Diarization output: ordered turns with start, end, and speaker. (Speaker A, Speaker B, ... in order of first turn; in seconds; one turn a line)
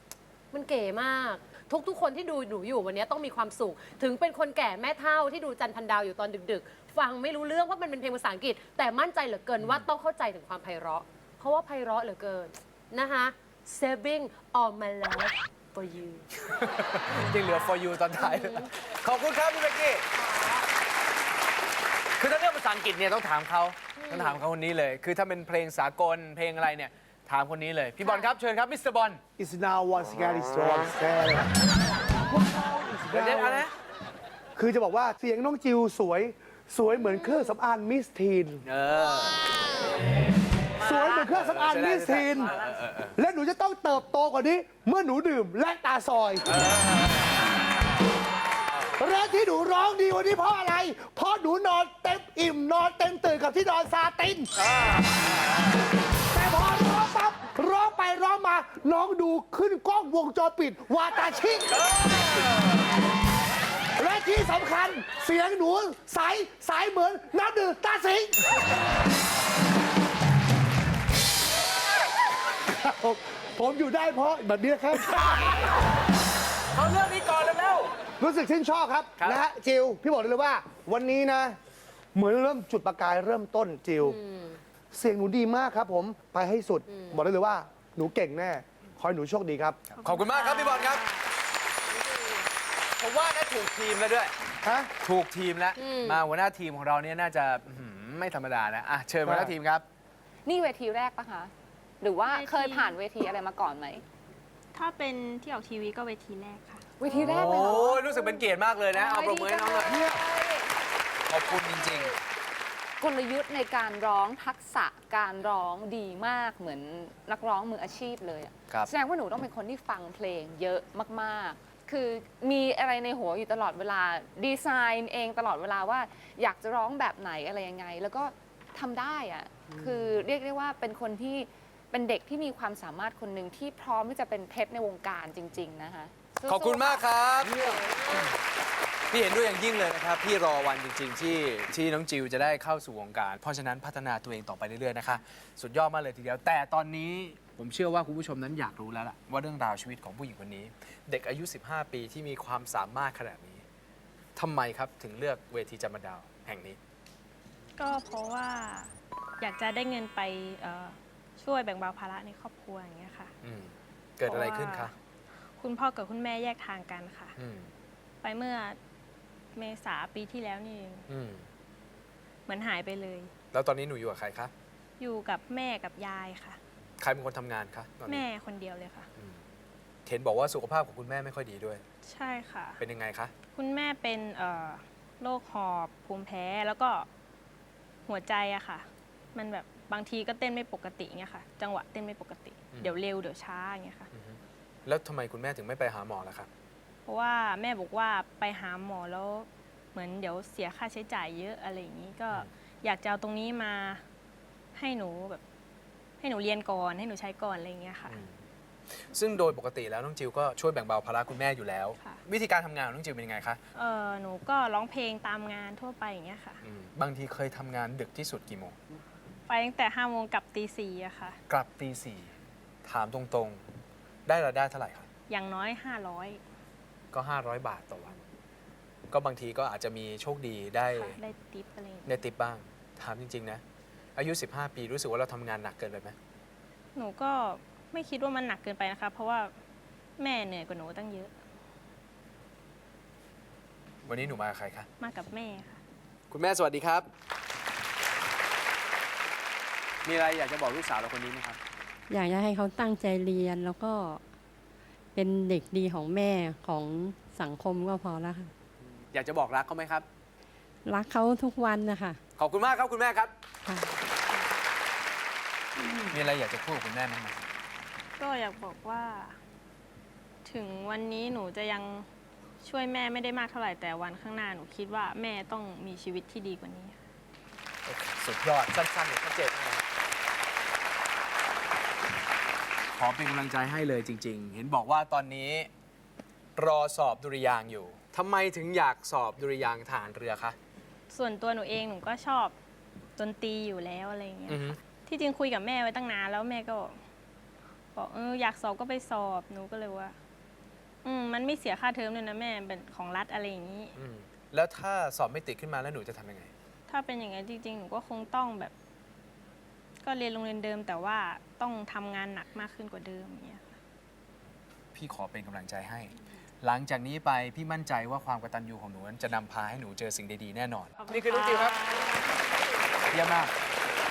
Speaker A: 0.5-16.2
Speaker B: 16.5-20.1
Speaker A: 17.1-18.7
Speaker A: 20.1-20.7
Speaker B: 22.2-29.2
Speaker A: 24.0-24.4
Speaker A: 28.0-28.3
Speaker C: 29.4-31.5
Speaker C: 32.3-33.7
Speaker B: 33.1-33.7
Speaker C: 34.6-38.6
Speaker A: 37.0-37.5
Speaker B: 38.6-39.4
Speaker B: 40.8-43.2
Speaker C: 40.8-42.5
Speaker C: 43.1-46.5
Speaker B: 46.5-47.2
Speaker C: 49.0-54.5
Speaker C: 56.3-62.0
Speaker C: 64.0-68.5
Speaker C: 72.7-75.5
Speaker B: 76.7-77.9
Speaker C: 78.2-81.6
Speaker C: 82.2-84.2
Speaker A: 84.0-84.6
Speaker C: 84.9-89.8
Speaker A: 86.9-87.2
Speaker B: 89.9-91.0
Speaker D: 90.0-91.3
Speaker A: 91.9-92.5
Speaker B: 93.0-94.3
Speaker C: 94.6-94.9
Speaker B: 95.0-99.8
Speaker A: 95.8-96.2
Speaker C: 99.2-99.5
Speaker E: 100.5-104.0
Speaker D: 102.3-103.0
Speaker D: 104.7-107.8
Speaker E: 107.0-110.7
Speaker B: 107.0-110.2
Speaker B: 111.3-112.2
Speaker E: 113.0-137.1
Speaker B: 136.4-137.7
Speaker A: 137.7-138.1
Speaker B: 139.1-153.6
Speaker B: 154.4-156.8
Speaker D: 157.8-163.3
Speaker B: 163.4-164.9
Speaker D: 164.3-164.9
Speaker D: 165.6-167.3
Speaker B: 167.4-167.7
Speaker D: 168.2-168.8
Speaker D: 169.6-171.1
Speaker B: 171.1-171.4
Speaker D: 172.5-173.3
Speaker B: 173.5-174.5
Speaker D: 175.0-176.6
Speaker B: 177.0-178.2
Speaker D: 178.1-179.1
Speaker B: 180.1-181.8
Speaker D: 182.0-182.8
Speaker B: 182.8-183.3
Speaker D: 183.5-187.1
Speaker D: 188.1-194.1
Speaker B: 194.1-196.5
Speaker D: 197.1-204.0
Speaker D: 204.8-205.4
Speaker D: 206.2-208.2
Speaker B: 209.1-213.6
Speaker D: 213.8-216.6
Speaker B: 216.6-218.8
Speaker D: 219.5-221.4
Speaker B: 221.5-222.3
Speaker B: 222.8-223.6
Speaker B: 224.3-225.1
Speaker D: 225.3-226.4
Speaker B: 227.1-228.2
Speaker B: 229.1-231.2
Speaker D: 230.9-232.2
Speaker B: 232.1-233.6
Speaker B: 234.2-236.2
Speaker D: 236.9-239.5
Speaker D: 240.2-241.4
Speaker B: 244.1-244.9
Speaker D: 245.0-245.8
Speaker B: 246.3-247.1
Speaker B: 250.1-251.6
Speaker F: 252.1-254.2
Speaker F: 255.2-258.5
Speaker B: 259.1-260.1
Speaker F: 260.9-262.2
Speaker B: 262.4-263.3
Speaker F: 263.7-264.0
Speaker B: 266.1-267.4
Speaker D: 268.2-269.4
Speaker D: 270.4-272.1
Speaker D: 272.6-277.0
Speaker B: 277.9-279.8
Speaker B: 282.9-285.7
Speaker B: 286.6-290.6
Speaker D: 291.1-292.6
Speaker D: 293.2-297.0
Speaker B: 294.5-294.8
Speaker D: 297.9-300.2
Speaker D: 301.0-303.9
Speaker B: 303.9-306.5
Speaker D: 306.9-308.7
Speaker D: 310.0-313.8
Speaker B: 314.9-321.8
Speaker D: 321.1-322.3
Speaker B: 323.1-323.5